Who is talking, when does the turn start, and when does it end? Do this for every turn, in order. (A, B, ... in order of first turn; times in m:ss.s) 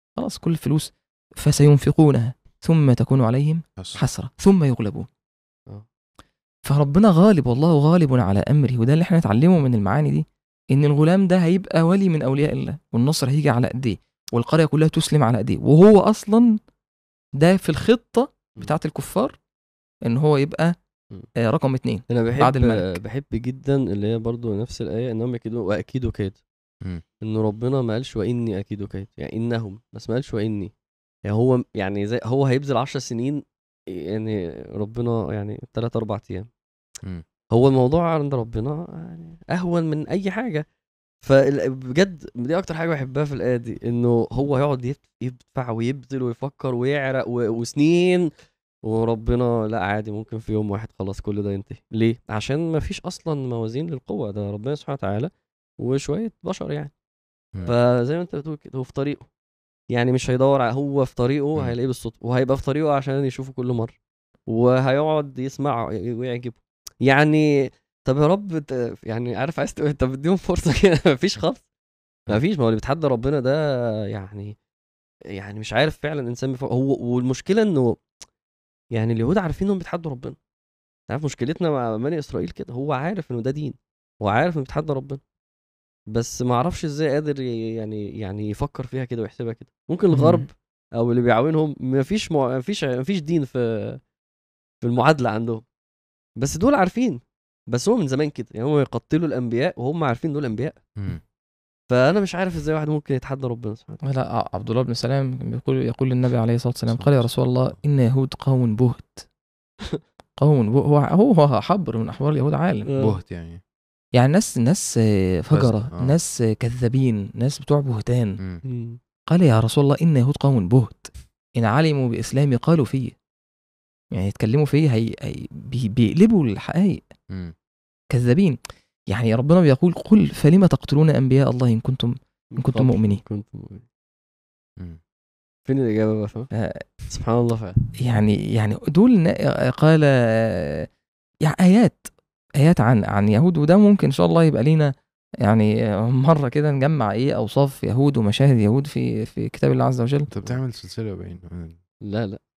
0:00.2-0:05.1 A
0:06.6-0:16.6 A
0:17.4-0:19.4 A
0:20.0-0:20.7 A
0:21.4-0:23.0 A
0:22.1-0:26.4 B
0:27.2-0:30.7 B
0:31.2-0:36.5 B
0:37.5-0:40.6 B
0:41.2-0:48.3 B
0:48.8-0:56.9 B
0:57.6-0:59.2 B
0:59.9-1:04.0 B
1:04.5-1:11.6 B
1:12.3-1:14.6 B
1:15.3-1:18.0 B
1:18.9-1:20.4 B
1:21.1-1:25.2 B
1:26.1-1:34.0 B
1:30.1-1:30.5 A
1:34.8-1:35.6 B
1:36.4-1:40.8 B
1:41.0-1:41.2 C
1:41.9-1:44.0 B
1:44.0-1:49.2 A
1:46.9-1:47.2 C
1:50.4-1:52.9 A
1:52.9-1:53.2 B
1:53.0-1:53.6 C
1:54.2-1:58.4 A
1:55.5-1:56.2 C
1:58.6-1:59.0 B
1:59.3-2:03.2 A
2:04.1-2:07.0 A
2:07.3-2:07.6 C
2:08.1-2:08.6 A
2:09.1-2:13.2 A
2:12.6-2:13.8 B
2:15.7-2:16.5 B
2:16.5-2:16.9 A
2:17.1-2:17.8 B
2:18.0-2:20.9 A
2:21.4-2:22.1 A
2:22.6-2:24.9 A
2:25.4-2:30.3 A
2:30.3-2:31.8 C
2:32.0-2:32.4 B